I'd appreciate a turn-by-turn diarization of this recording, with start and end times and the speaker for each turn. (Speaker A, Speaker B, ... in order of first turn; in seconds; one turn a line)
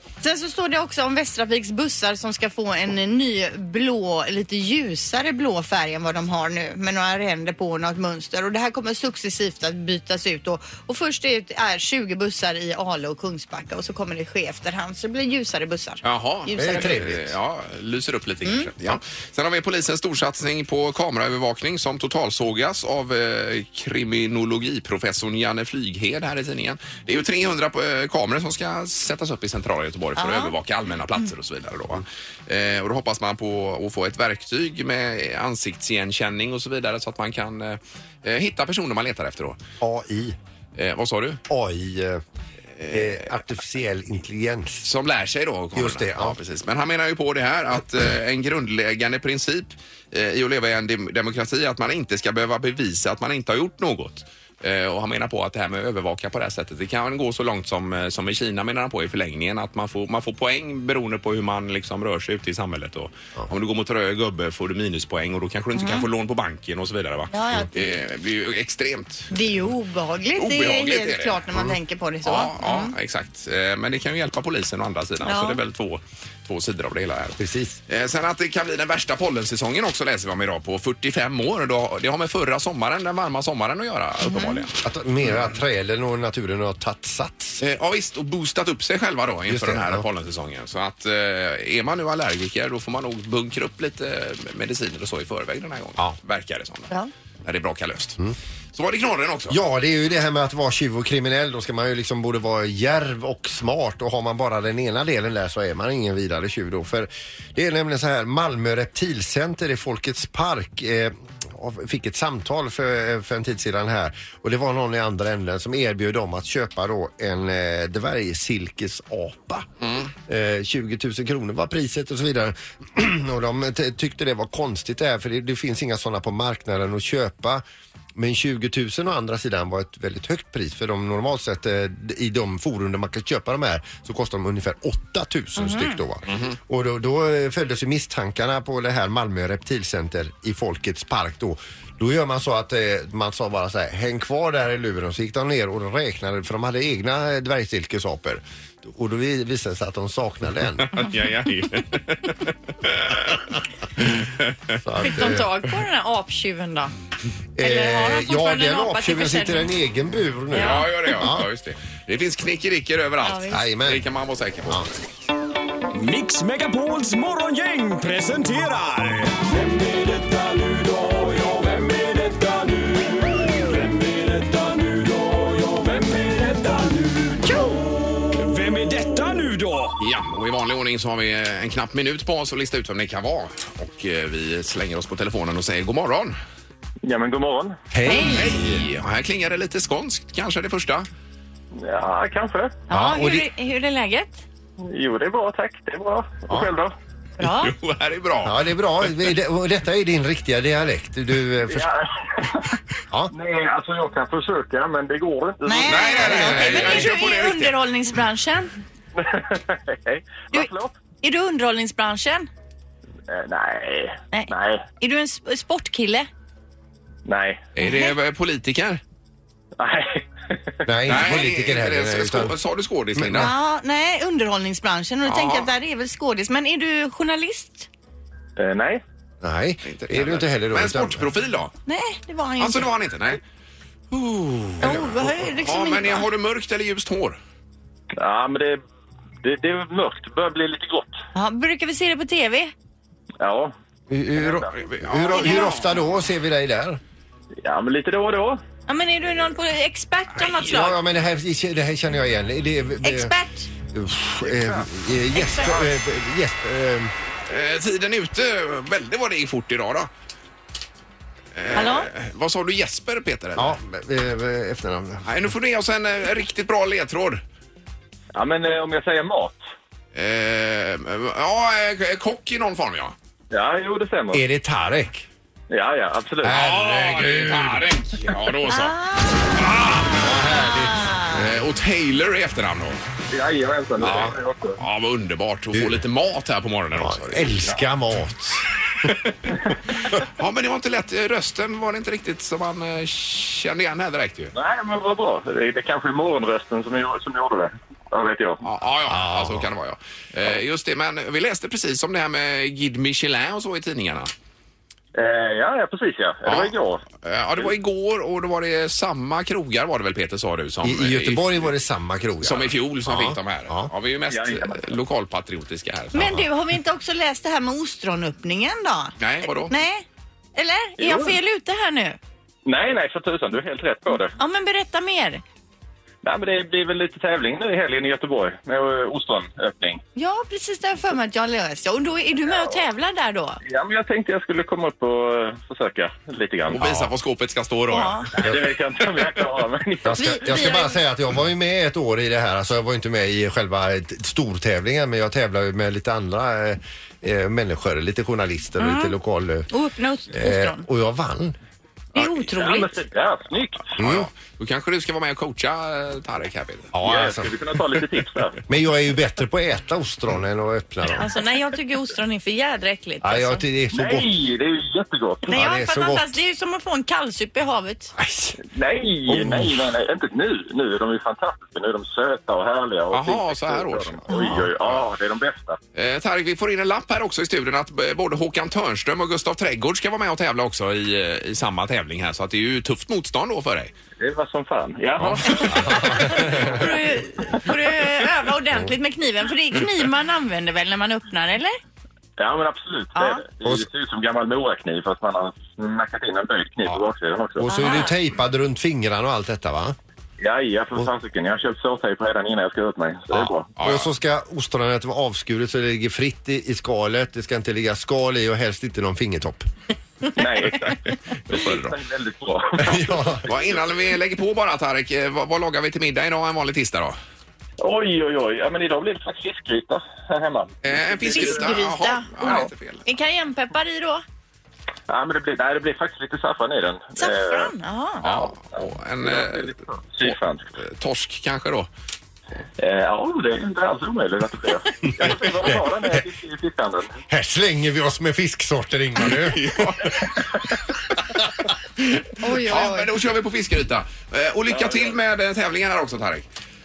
Speaker A: 0.2-17.0
Speaker B: 16.0-39.6
Speaker C: 16.6-17.4
Speaker A: 18.4-18.7
Speaker A: 30.2-30.5
Speaker C: 39.8-40.4
Speaker B: 40.8-41.4
Speaker C: 41.5-42.2
Speaker B: 42.8-43.3
Speaker C: 42.9-44.9
Speaker B: 44.8-69.3
Speaker C: 45.8-46.4
Speaker A: 65.8-66.1
Speaker A: 67.3-67.9
Speaker A: 69.3-72.9
Speaker B: 70.4-71.4
Speaker B: 72.2-84.8
Speaker A: 75.2-75.6
Speaker C: 77.4-77.8
Speaker A: 84.2-84.6
Speaker C: 84.8-87.6
Speaker B: 87.6-96.9
Speaker C: 89.5-90.0
Speaker B: 97.4-98.2
Speaker B: 98.8-99.6
Speaker C: 99.5-119.7
Speaker B: 119.8-120.1
Speaker C: 120.3-127.6
Speaker C: 128.1-150.9
Speaker A: 135.6-136.0
Speaker B: 136.3-136.6
Speaker B: 150.8-154.8
Speaker C: 154.7-155.5
Speaker A: 155.0-156.9
Speaker C: 157.6-161.5
Speaker A: 157.6-159.7
Speaker A: 160.5-160.9
Speaker B: 160.5-164.8
Speaker A: 163.2-163.6
Speaker C: 163.5-164.1
Speaker D: 165.9-180.0
Speaker A: 177.4-177.8
Speaker B: 180.0-186.4
Speaker E: 187.0-187.8
Speaker C: 187.9-188.8
Speaker A: 188.1-188.5
Speaker B: 188.2-191.1
Speaker E: 191.7-192.8
Speaker A: 192.9-194.4
Speaker C: 192.9-193.5
Speaker E: 194.8-196.9
Speaker A: 197.4-197.7
Speaker B: 197.4-198.6
Speaker C: 198.4-201.9
Speaker E: 201.7-202.8
Speaker E: 203.3-206.5
Speaker A: 205.6-208.7
Speaker B: 205.9-207.8
Speaker C: 206.2-207.1
Speaker E: 209.1-210.9
Speaker A: 211.2-212.5
Speaker E: 213.3-214.8
Speaker A: 214.3-216.3
Speaker E: 217.2-217.7
Speaker B: 217.8-219.0
Speaker A: 217.8-218.1
Speaker E: 219.8-220.8
Speaker C: 220.8-222.6
Speaker B: 221.1-223.5
Speaker C: 223.1-223.5
Speaker A: 223.3-227.9
Speaker B: 225.2-225.7
Speaker E: 228.6-229.0
Speaker C: 229.4-231.3
Speaker B: 229.8-231.7
Speaker A: 231.9-232.9
Speaker B: 232.6-233.4
Speaker B: 234.1-237.4
Speaker A: 234.8-236.3
Speaker E: 238.1-238.8
Speaker E: 239.4-241.1
Speaker A: 241.3-242.7
Speaker E: 243.4-243.7
Speaker C: 244.1-247.0
Speaker E: 244.4-244.7
Speaker B: 244.8-245.9
Speaker A: 245.3-245.7
Speaker E: 247.6-248.6
Speaker A: 248.9-251.0
Speaker C: 250.6-253.3
Speaker A: 253.0-253.7
Speaker C: 253.9-257.1
Speaker A: 255.3-255.8
Speaker B: 257.5-260.1
Speaker B: 261.6-263.8
Speaker A: 261.7-262.1
Speaker C: 263.6-265.5
Speaker B: 265.2-267.4
Speaker E: 268.4-269.6
Speaker B: 270.1-273.1
Speaker E: 273.5-274.4
Speaker C: 274.3-275.2
Speaker E: 275.7-276.6
Speaker C: 276.4-277.9
Speaker B: 276.5-279.0
Speaker A: 278.7-279.6
Speaker B: 279.5-280.3
Speaker C: 280.0-281.4
Speaker A: 280.5-281.3
Speaker B: 281.3-283.0
Speaker E: 283.3-284.8
Speaker C: 284.0-284.4
Speaker B: 284.0-287.6
Speaker C: 285.7-286.0
Speaker C: 286.9-289.1
Speaker B: 290.2-294.5
Speaker E: 294.5-298.6
Speaker B: 298.6-304.3
Speaker C: 299.1-299.7
Speaker E: 305.1-307.0
Speaker B: 306.4-311.7
Speaker C: 310.8-313.9
Speaker B: 312.4-316.4
Speaker E: 314.3-314.9
Speaker A: 316.1-322.2
Speaker C: 316.2-316.4
Speaker B: 319.2-319.7
Speaker E: 321.0-321.4
Speaker E: 322.6-324.4
Speaker A: 324.4-325.4
Speaker E: 326.2-330.0
Speaker A: 330.1-333.6
Speaker E: 332.5-332.8
Speaker E: 333.6-336.8
Speaker B: 336.7-338.5
Speaker C: 336.8-337.1
Speaker A: 337.9-338.3
Speaker E: 338.4-340.4
Speaker C: 338.4-338.7
Speaker C: 340.0-349.7
Speaker A: 340.1-341.0
Speaker A: 348.8-349.1
Speaker A: 349.7-350.9
Speaker C: 350.3-351.6
Speaker A: 352.1-353.0
Speaker E: 352.5-354.0
Speaker C: 354.0-354.3
Speaker B: 354.0-356.9
Speaker C: 356.9-357.6
Speaker E: 357.0-358.6
Speaker C: 358.7-361.3
Speaker A: 361.1-363.6
Speaker C: 363.2-364.3
Speaker E: 363.9-365.5
Speaker C: 365.5-366.4
Speaker A: 365.5-368.1
Speaker C: 368.1-368.6
Speaker E: 368.6-375.8
Speaker C: 369.3-369.9
Speaker B: 373.1-374.2
Speaker A: 374.3-374.6
Speaker C: 374.3-374.7
Speaker B: 375.9-383.9
Speaker E: 384.2-386.9
Speaker C: 385.5-386.8
Speaker A: 385.5-391.8
Speaker B: 385.6-385.9
Speaker E: 392.4-397.7
Speaker A: 393.1-393.4
Speaker C: 397.6-400.0
Speaker A: 397.7-398.1
Speaker E: 400.4-403.7
Speaker C: 403.3-409.6
Speaker B: 403.8-404.1
Speaker E: 410.4-413.6
Speaker B: 410.6-412.0
Speaker C: 412.8-413.5
Speaker B: 413.5-417.2
Speaker E: 417.8-421.8
Speaker B: 420.8-423.1
Speaker A: 421.3-424.2
Speaker E: 425.1-427.7
Speaker A: 427.2-428.3
Speaker B: 428.2-431.9
Speaker E: 428.3-430.7
Speaker E: 432.8-437.2
Speaker C: 435.2-436.2
Speaker C: 437.3-440.3
Speaker B: 439.2-440.4
Speaker B: 442.0-446.4
Speaker A: 442.4-443.1
Speaker E: 444.7-445.2